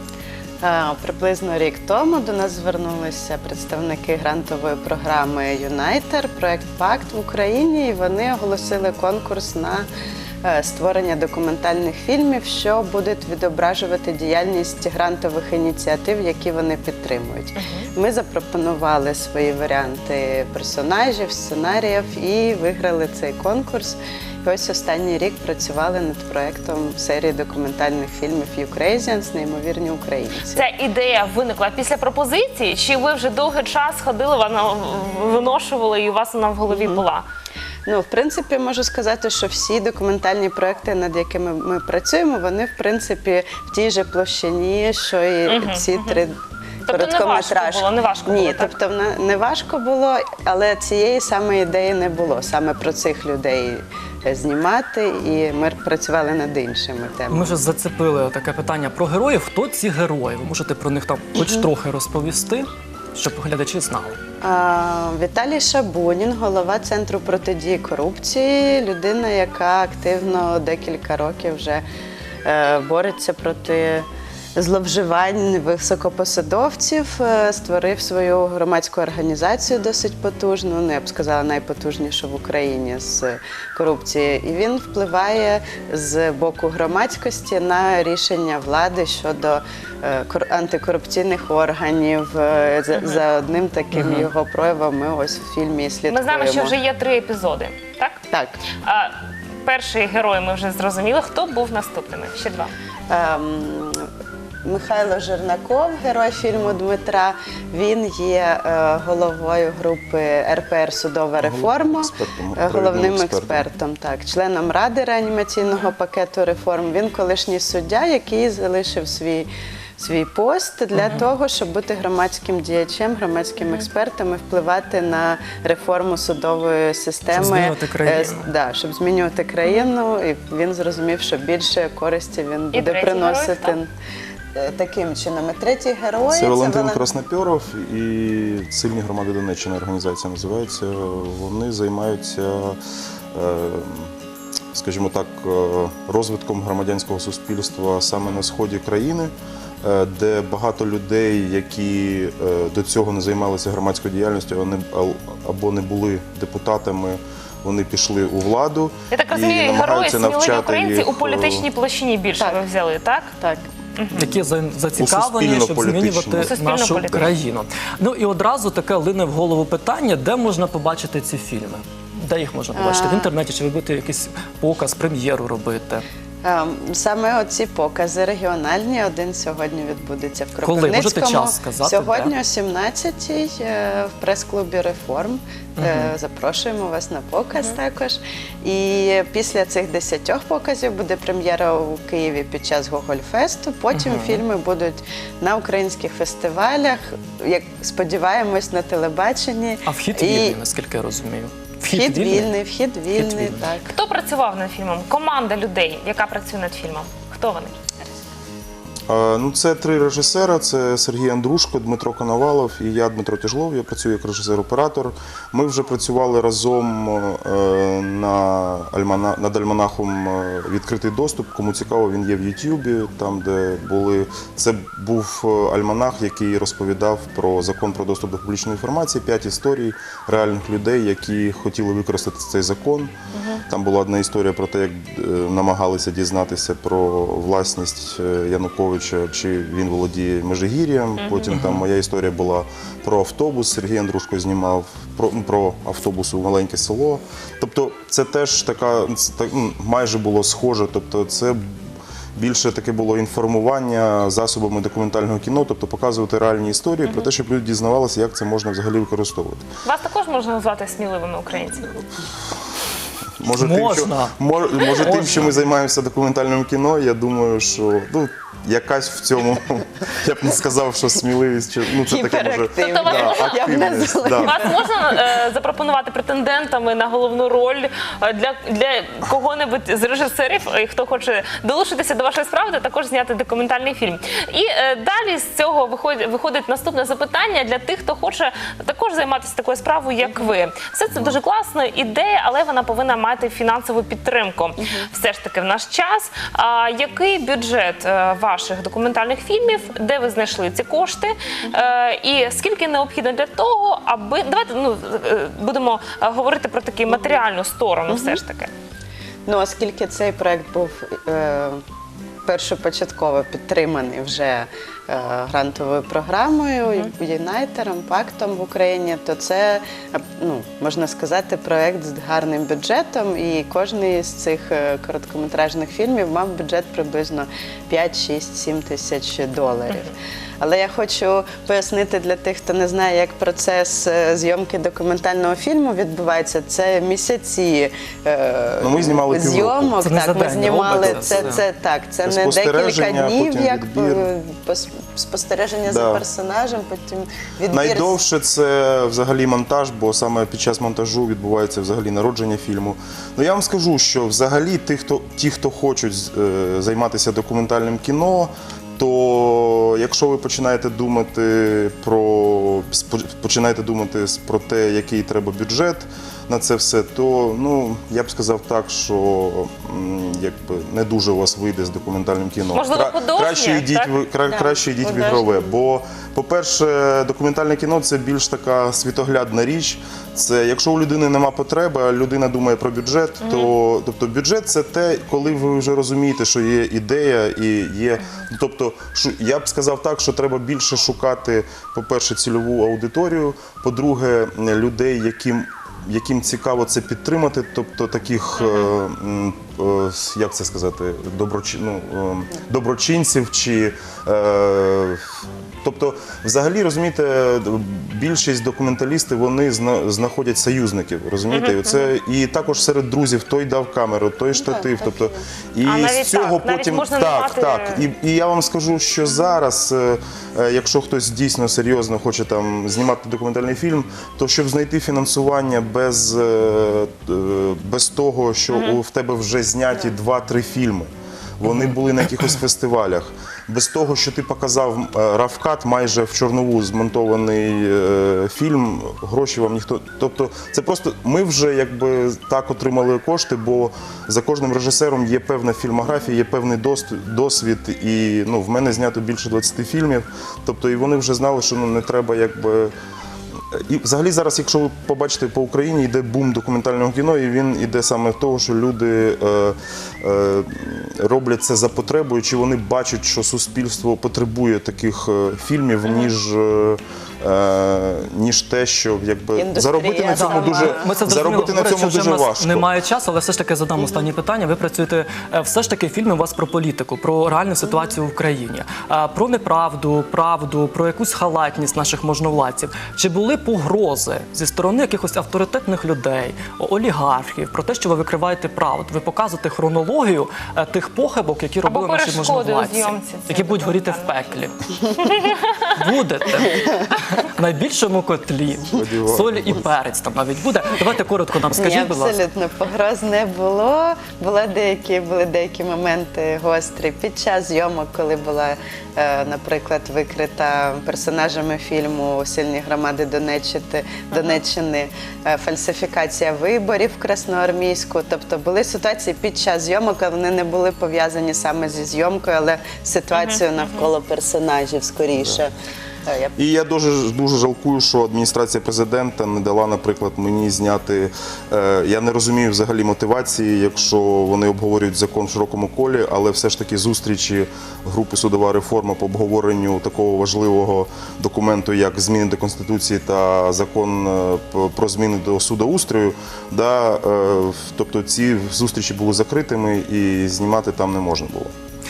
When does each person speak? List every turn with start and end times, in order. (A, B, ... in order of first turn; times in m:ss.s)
0:00.6-0:09.9 A
0:10.4-0:30.7 A
0:17.6-0:17.8 B
0:30.5-0:37.2 B
0:36.7-0:37.0 A
0:37.8-0:46.3 A
0:45.4-0:46.2 B
0:46.9-0:48.7 B
0:46.9-0:57.6 A
0:57.3-1:04.2 C
1:01.4-1:01.7 A
1:04.4-1:11.8 A
1:12.4-1:36.8 A
1:32.9-1:33.2 B
1:33.9-1:34.3 C
1:36.1-1:38.2 B
1:38.8-1:42.7 B
1:43.1-1:44.0 A
1:44.6-2:13.9 A
1:51.4-1:53.7 D
2:01.0-2:01.2 C
2:07.3-2:08.4 C
2:12.7-2:13.8 B
2:14.5-2:17.0 A
2:16.3-2:22.8 D
2:23.3-2:24.1 D
2:24.7-2:29.3 D
2:29.8-2:41.6 D
2:39.1-2:43.3 B
2:43.4-2:43.6 A
2:44.0-2:44.3 B
2:44.1-2:56.0 C
2:45.0-2:46.5 D
2:46.4-2:47.3 B
2:52.7-2:53.3 A
2:56.4-3:20.6 A
3:00.6-3:02.3 C
3:05.8-3:06.1 C
3:13.9-3:14.4 C
3:19.8-3:22.5 C
3:21.9-3:23.9 A
3:23.1-3:23.6 C
3:23.9-3:27.8 B
3:29.1-3:53.1 D
3:53.3-3:53.6 B
3:53.7-4:11.8 D
4:01.2-4:01.5 B
4:12.4-4:19.6 D
4:19.8-4:21.9 B
4:23.4-4:34.7 D
4:23.6-4:24.3 C
4:25.0-4:25.5 C
4:32.0-4:35.0 A
4:32.8-4:33.9 B
4:34.4-5:08.7 B
4:50.2-4:50.5 A
4:54.8-4:55.1 A
5:08.1-5:08.4 A
5:09.4-5:11.8 A
5:12.4-5:48.2 A
5:16.8-5:17.1 B
5:38.8-5:40.0 D
5:40.0-5:41.6 C
5:42.2-5:44.3 D
5:45.8-5:46.2 D
5:47.7-6:45.2 D
6:12.7-6:14.1 B
6:14.5-6:15.7 A
6:23.4-6:23.7 B
6:38.6-6:38.9 B
6:45.8-7:11.1 D
6:51.5-6:52.1 B
6:54.5-6:55.4 A
6:55.8-6:58.0 B
7:08.7-7:09.0 B
7:11.6-7:32.9 D
7:33.7-7:52.9 D
7:49.6-7:51.2 A
7:50.3-8:14.8 C
8:11.8-8:14.5 B
8:15.9-8:22.4 C
8:18.9-8:19.8 D
8:21.7-8:45.7 A
8:34.3-8:34.6 B
8:43.3-8:44.1 B
8:46.2-8:46.6 A
8:46.6-9:11.7 D